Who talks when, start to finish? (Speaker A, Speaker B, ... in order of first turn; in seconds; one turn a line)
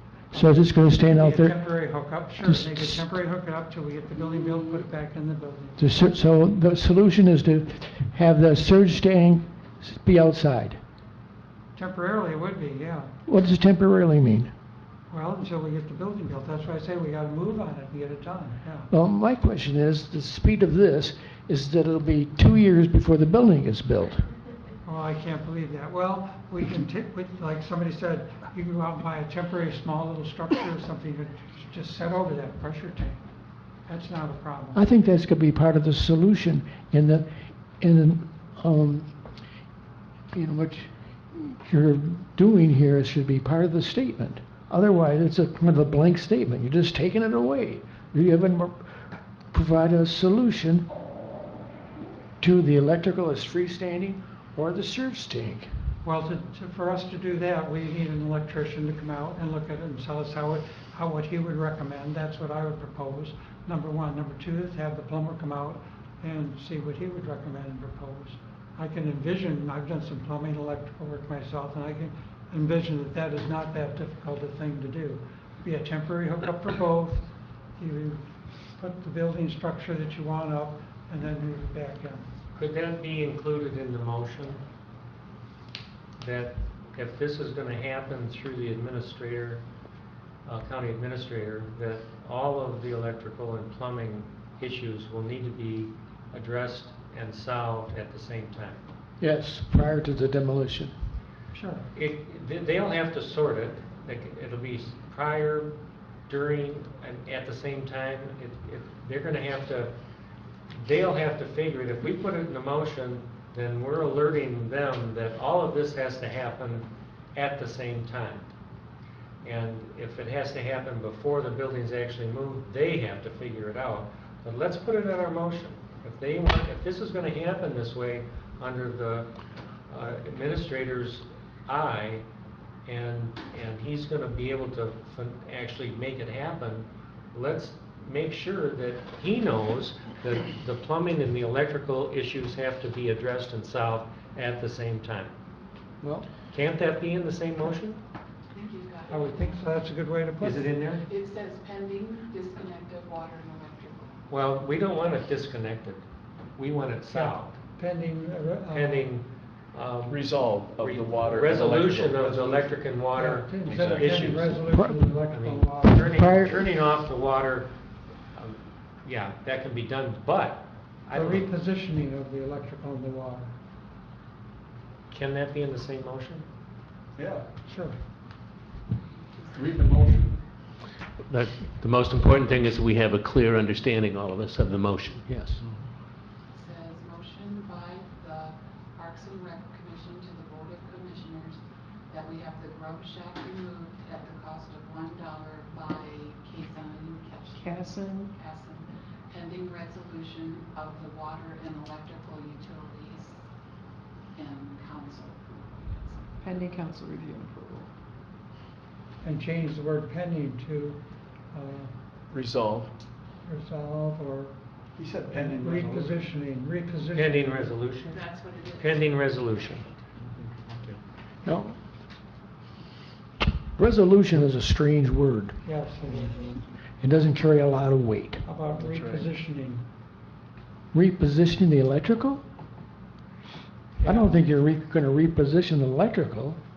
Speaker A: 0.3-3.0
Speaker B: 0.3-5.8
Speaker A: 5.8-10.8
Speaker B: 11.8-13.1
Speaker A: 13.3-14.5
Speaker B: 15.1-18.9
Speaker A: 18.9-24.3
Speaker B: 24.9-33.2
Speaker B: 33.9-34.8
Speaker A: 34.7-39.1
Speaker A: 40.3-50.9
Speaker A: 52.4-55.7
Speaker B: 56.0-82.3
Speaker C: 82.5-84.6
Speaker C: 86.2-89.6
Speaker C: 90.5-98.8
Speaker A: 99.2-100.9
Speaker B: 101.5-101.9
Speaker C: 101.9-105.8
Speaker C: 106.3-109.9
Speaker C: 110.8-118.5
Speaker C: 119.4-129.3
Speaker C: 129.9-132.2
Speaker C: 132.9-145.3
Speaker A: 146.0-146.3
Speaker C: 146.5-148.0
Speaker D: 148.5-149.9
Speaker B: 149.1-150.7
Speaker C: 150.4-151.1
Speaker D: 151.1-154.2
Speaker C: 154.3-156.0
Speaker C: 156.6-157.6
Speaker B: 157.1-159.1
Speaker C: 158.7-164.6
Speaker E: 160.1-162.9
Speaker B: 163.1-166.2
Speaker E: 163.6-164.6
Speaker A: 164.7-165.1
Speaker C: 165.3-167.7
Speaker A: 166.1-166.6
Speaker C: 168.3-171.5
Speaker B: 171.1-173.6
Speaker C: 175.1-176.4
Speaker E: 177.2-177.5
Speaker B: 177.7-178.0
Speaker D: 179.0-179.7
Speaker E: 179.5-180.4
Speaker F: 181.3-185.3
Speaker A: 185.3-185.7
Speaker D: 186.5-203.4
Speaker G: 197.6-198.3
Speaker D: 204.3-206.3
Speaker G: 206.4-207.9
Speaker B: 209.2-211.9
Speaker E: 212.3-212.9
Speaker B: 213.4-214.5
Speaker E: 215.0-216.2
Speaker B: 215.3-217.7
Speaker C: 217.1-219.9
Speaker D: 218.1-219.2
Speaker E: 220.2-221.0
Speaker A: 221.4-221.8
Speaker A: 223.6-225.6
Speaker B: 225.6-226.5
Speaker A: 227.0-228.5
Speaker B: 228.4-229.9
Speaker E: 228.7-229.3
Speaker A: 230.9-232.4
Speaker B: 234.0-234.3
Speaker A: 234.0-236.6